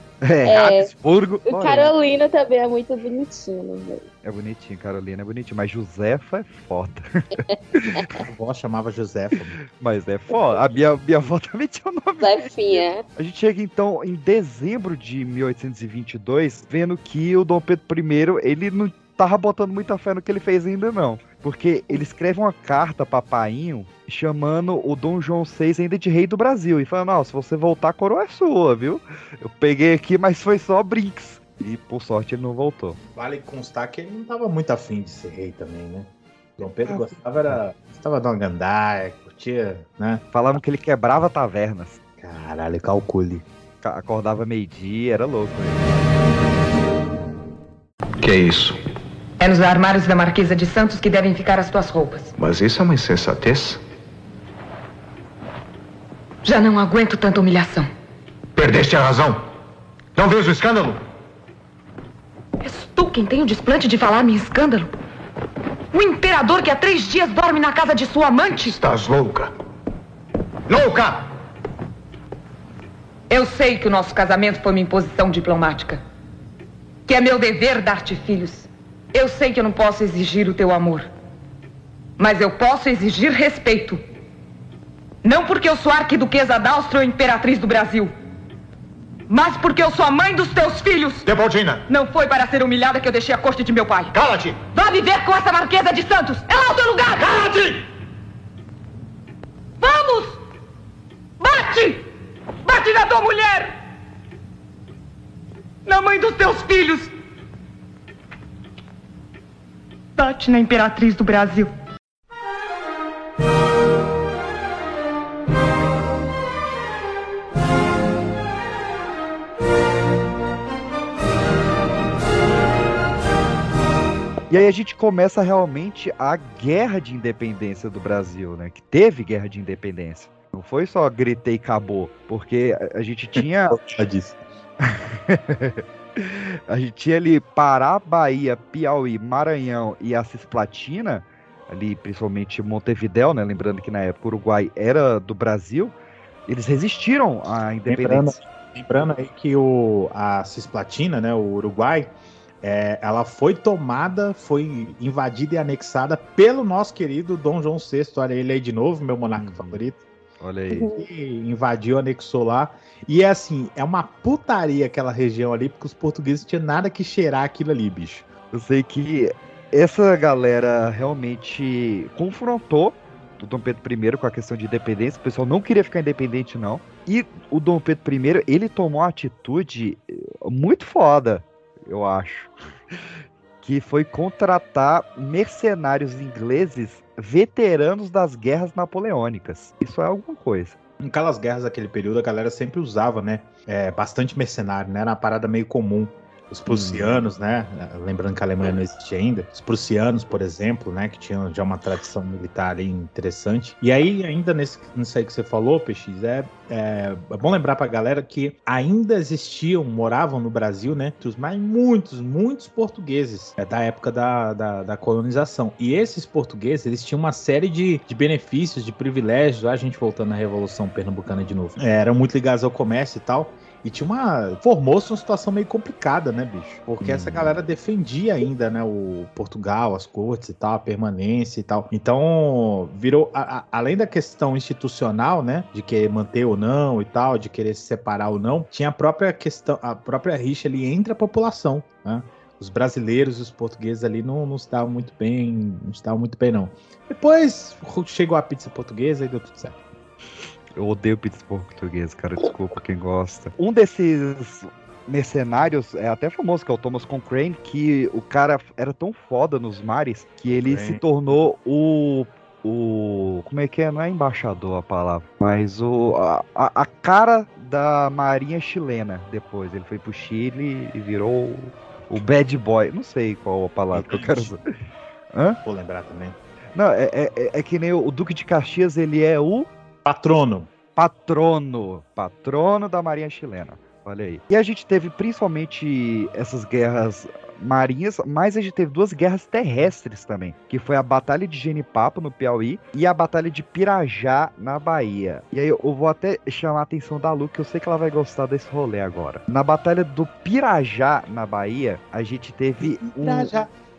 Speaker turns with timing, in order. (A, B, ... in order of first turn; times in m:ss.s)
0:00.2-0:01.9 A
0:00.4-0:00.9 B
0:01.5-0:04.1 B
0:04.2-0:08.2 A
0:08.2-0:09.5 C
0:09.7-0:33.0 A
0:12.2-0:13.0 B
0:33.1-0:40.2 C
0:36.6-0:37.6 A
0:40.3-0:42.0 A
0:42.2-0:43.4 C
0:43.8-0:45.9 A
0:48.2-0:48.8 D
0:49.4-0:52.3 E
0:52.4-0:53.8 D
0:56.4-0:57.9 E
0:58.6-0:59.4 F
1:00.1-1:01.0 F
1:02.6-1:04.9 E
1:05.9-1:08.8 E
1:08.7-1:09.5 F
1:10.7-1:11.2 F
1:13.3-1:16.0 E
1:17.1-1:21.1 E
1:22.2-1:24.0 E
1:25.2-1:28.1 E
1:29.3-1:31.2 E
1:31.2-1:31.8 F
1:31.9-1:34.1 E
1:34.1-1:34.6 F
1:34.7-1:37.5 E
1:37.2-1:37.8 F
1:39.8-1:40.4 E
1:41.4-1:42.0 E
1:42.6-1:43.7 E
1:45.8-1:47.1 E
1:50.2-1:51.7 E
2:04.5-2:13.8 A
2:13.4-2:14.4 C
2:14.8-2:25.9 A
2:26.5-2:28.4 A
2:27.9-2:40.0 C
2:39.4-2:39.8 A
2:40.4-2:40.9 A
2:40.8-2:41.1 B
2:40.9-2:48.3 C
2:48.5-3:02.5 A
3:03.6-3:10.8 A
3:11.0-4:09.8 C
3:16.7-3:17.2 A
3:47.0-3:47.5 A
4:10.8-4:34.6 A
4:20.6-4:21.0 C
4:33.9-4:34.5 C
4:35.3-4:35.6 A
4:35.6-4:36.4 C
4:36.8-4:39.7 A
4:40.0-4:40.7 C
4:41.0-5:03.5 A
5:02.8-5:03.7 C